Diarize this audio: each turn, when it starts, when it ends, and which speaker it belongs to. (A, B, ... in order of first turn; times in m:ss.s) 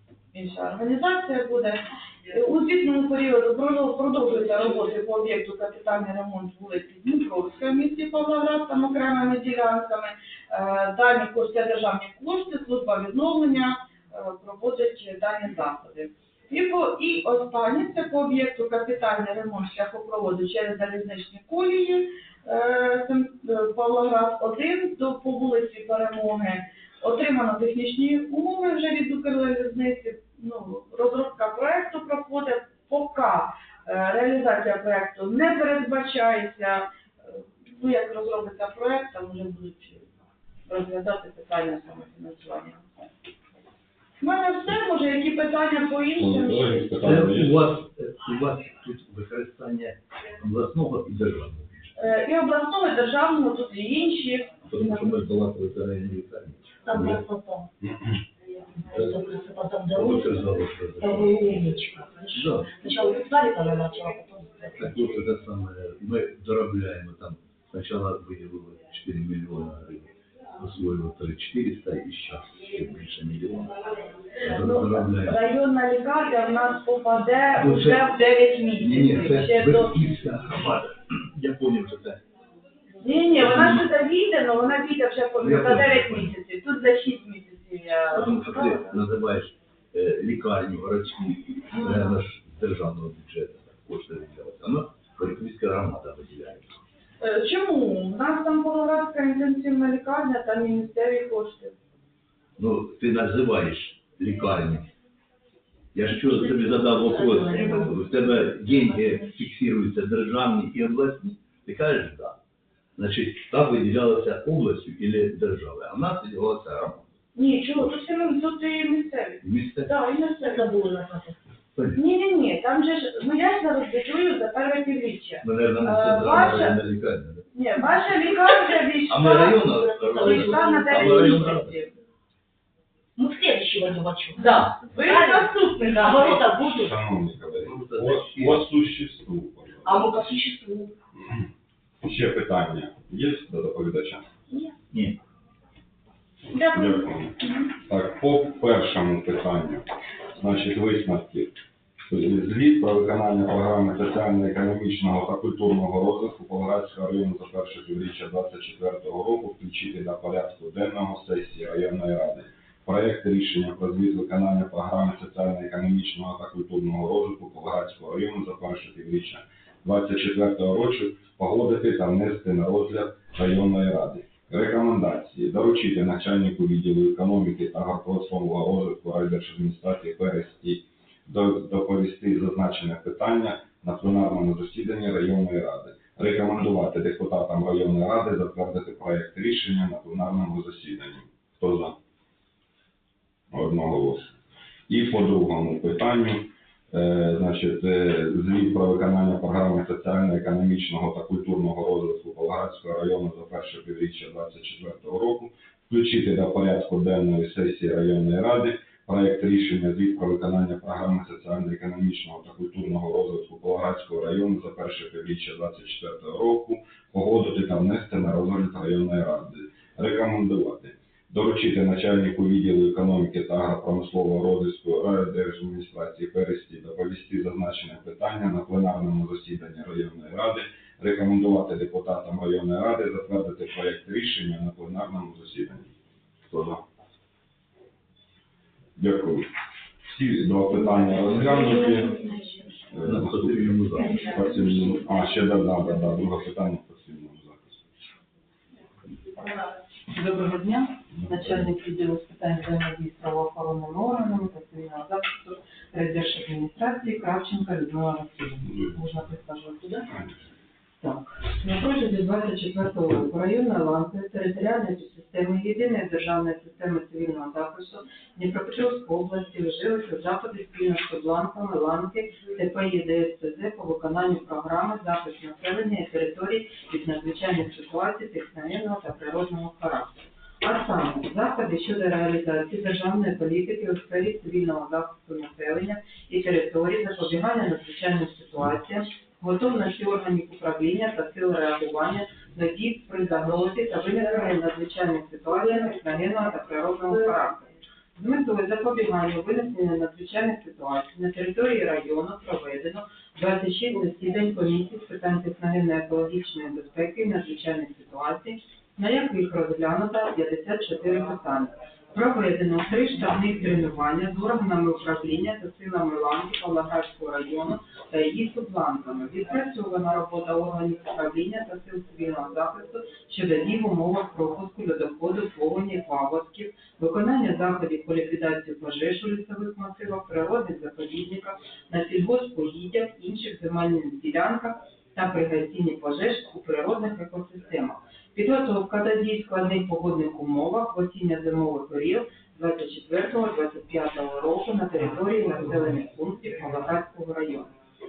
0:00.3-0:40.1 A
0:40.7-0:42.9 A
0:44.2-0:46.9 A
0:46.2-0:47.6 B
0:47.0-0:52.0 C
0:52.0-0:54.5 A
0:54.6-0:57.2 C
0:56.8-0:57.7 D
0:58.8-1:05.0 D
0:59.9-1:01.5 C
1:02.3-1:02.8 C
1:04.8-1:13.8 C
1:14.4-1:15.4 C
1:14.4-1:20.0 A
1:17.6-1:18.1 C
1:18.8-1:22.2 C
1:23.0-1:28.9 A
1:23.4-1:23.8 C
1:25.4-1:26.3 C
1:28.1-1:36.8 C
1:31.7-1:32.1 A
1:37.2-1:41.8 A
1:42.6-1:44.9 C
1:45.9-1:52.4 C
1:46.2-1:48.1 D
1:53.0-1:57.0 C
1:57.3-2:00.8 A
1:59.4-1:59.9 C
2:00.4-2:01.4 D
2:01.9-2:06.8 A
2:05.4-2:07.5 C
2:07.5-2:11.9 A
2:09.1-2:11.7 C
2:09.6-2:11.5 D
2:13.2-2:16.9 D
2:14.4-2:16.4 A
2:16.7-2:20.1 B
2:17.6-2:18.6 C
2:19.8-2:20.9 D
2:22.0-2:24.3 B
2:24.9-2:25.2 C
2:26.5-2:27.5 A
2:26.7-2:31.6 B
2:32.1-3:12.0 B
3:13.5-3:14.3 B
3:14.9-3:55.9 B
3:56.5-3:56.8 B
3:59.0-3:59.5 B
4:00.0-4:02.2 B
4:00.9-4:02.9 D
4:02.9-4:08.1 B
4:03.0-4:04.2 C
4:09.3-4:20.3 E
4:21.0-5:47.7 E